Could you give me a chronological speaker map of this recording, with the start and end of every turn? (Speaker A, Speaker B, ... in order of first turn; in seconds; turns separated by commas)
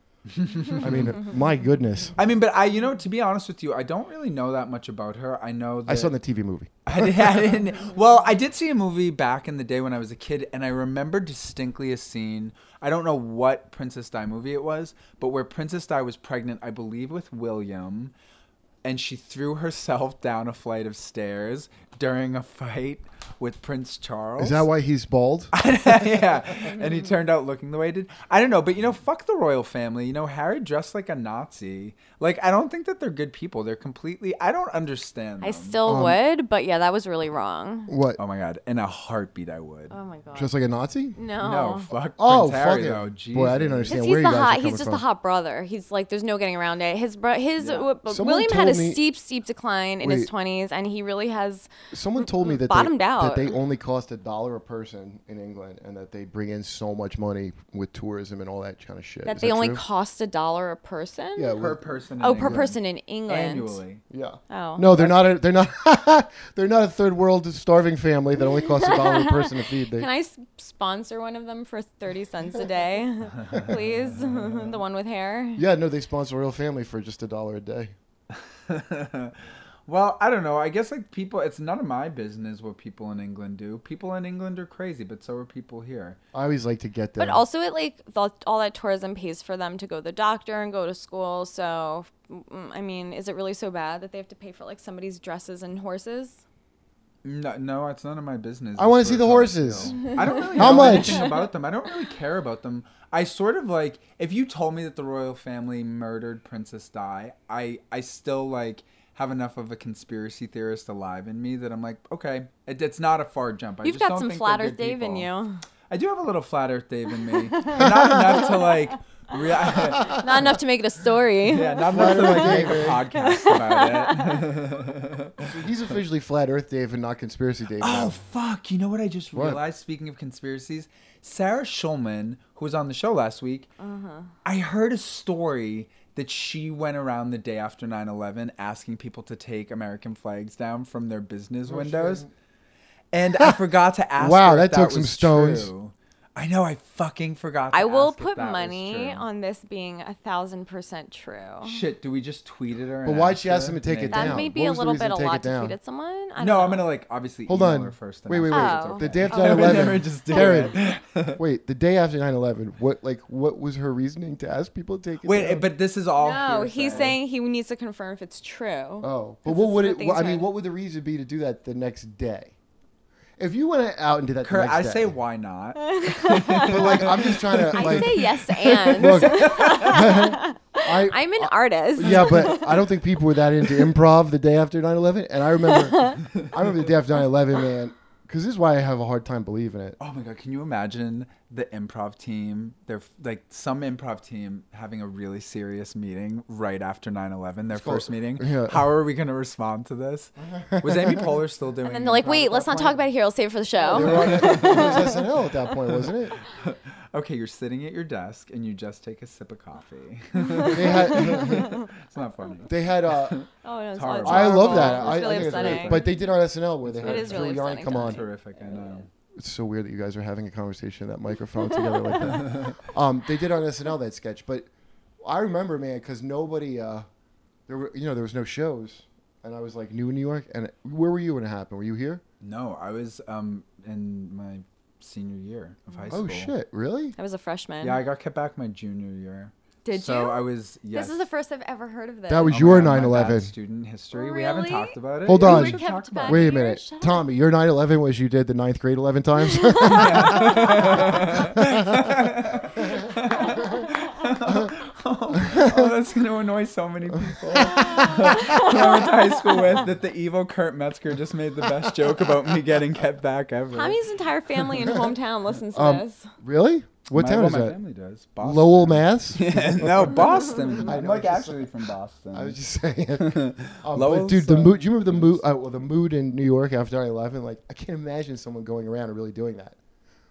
Speaker A: 0.3-1.2, Speaker B: 0.8-2.2, Speaker A: 2.2-6.2, Speaker B: 5.9-7.4, Speaker A: 6.9-18.1, Speaker A: 18.8-24.7, Speaker B: 24.4-26.3, Speaker A: 25.5-35.8, Speaker C: 35.4-37.9, Speaker B: 35.9-36.2, Speaker B: 37.9-38.2, Speaker A: 38.2-39.9, Speaker C: 39.9-40.5, Speaker B: 40.4-41.2, Speaker C: 41.1-41.9, Speaker A: 41.4-44.0, Speaker B: 42.2-45.0, Speaker C: 43.9-51.7, Speaker A: 47.6-47.9, Speaker B: 48.1-49.0, Speaker B: 50.0-50.3, Speaker B: 51.9-59.8, Speaker C: 52.2-53.5, Speaker C: 59.2-61.6, Speaker B: 61.4-61.8, Speaker A: 61.5-64.0, Speaker C: 62.2-63.8, Speaker B: 62.4-62.7, Speaker B: 64.1-70.1, Speaker C: 64.5-65.0, Speaker C: 68.5-75.6, Speaker A: 73.4-74.8, Speaker B: 75.6-77.9, Speaker A: 78.3-86.2, Speaker B: 86.3-87.4, Speaker C: 87.2-96.4, Speaker A: 97.2-115.3, Speaker B: 98.8-101.3, Speaker C: 100.0-101.3, Speaker C: 113.8-115.6, Speaker A: 115.9-120.4, Speaker C: 117.3-124.4, Speaker B: 117.8-118.3, Speaker A: 121.5-125.5, Speaker B: 121.9-123.0, Speaker B: 125.4-128.2, Speaker A: 127.8-133.7, Speaker C: 133.8-134.3, Speaker A: 134.4-142.3, Speaker B: 141.7-142.3, Speaker A: 143.1-149.2, Speaker B: 144.2-145.7, Speaker C: 147.7-151.8, Speaker A: 151.6-154.5, Speaker B: 153.1-155.8, Speaker C: 154.1-156.8, Speaker A: 156.4-161.4, Speaker B: 157.5-160.8, Speaker C: 158.5-160.8, Speaker B: 161.4-165.7, Speaker A: 165.2-167.2, Speaker C: 166.2-170.5, Speaker B: 166.9-167.2, Speaker B: 169.0-172.5, Speaker B: 173.4-175.2, Speaker A: 174.4-180.2, Speaker C: 175.8-177.1, Speaker B: 176.5-178.2, Speaker C: 177.8-182.9, Speaker B: 178.9-190.0, Speaker C: 185.9-186.2, Speaker A: 186.3-186.7, Speaker A: 190.0-202.3, Speaker B: 197.7-198.8, Speaker B: 200.4-201.3, Speaker C: 201.8-205.2, Speaker B: 202.2-203.0, Speaker B: 203.8-206.4, Speaker A: 203.9-205.2, Speaker A: 205.9-216.2, Speaker C: 210.4-211.9, Speaker B: 210.7-211.8, Speaker B: 212.7-213.4, Speaker C: 213.6-216.0, Speaker B: 214.2-218.2, Speaker A: 216.8-219.1, Speaker C: 217.1-218.2, Speaker B: 219.4-224.7, Speaker A: 222.2-222.8, Speaker B: 225.2-227.1, Speaker B: 227.7-232.2, Speaker A: 232.4-236.5, Speaker C: 235.9-236.2, Speaker B: 236.1-237.2, Speaker C: 237.2-238.0, Speaker A: 237.8-241.2, Speaker C: 239.8-242.6, Speaker B: 242.3-243.5, Speaker A: 242.5-246.5, Speaker C: 244.1-247.2, Speaker B: 245.2-252.1, Speaker C: 249.4-251.2, Speaker A: 249.8-264.0, Speaker B: 255.4-255.9, Speaker B: 257.2-258.6, Speaker C: 257.6-259.8, Speaker C: 263.7-266.3, Speaker A: 264.6-264.9, Speaker B: 265.7-267.8, Speaker A: 267.1-272.6, Speaker B: 268.4-271.7, Speaker B: 272.3-279.8, Speaker A: 273.2-275.4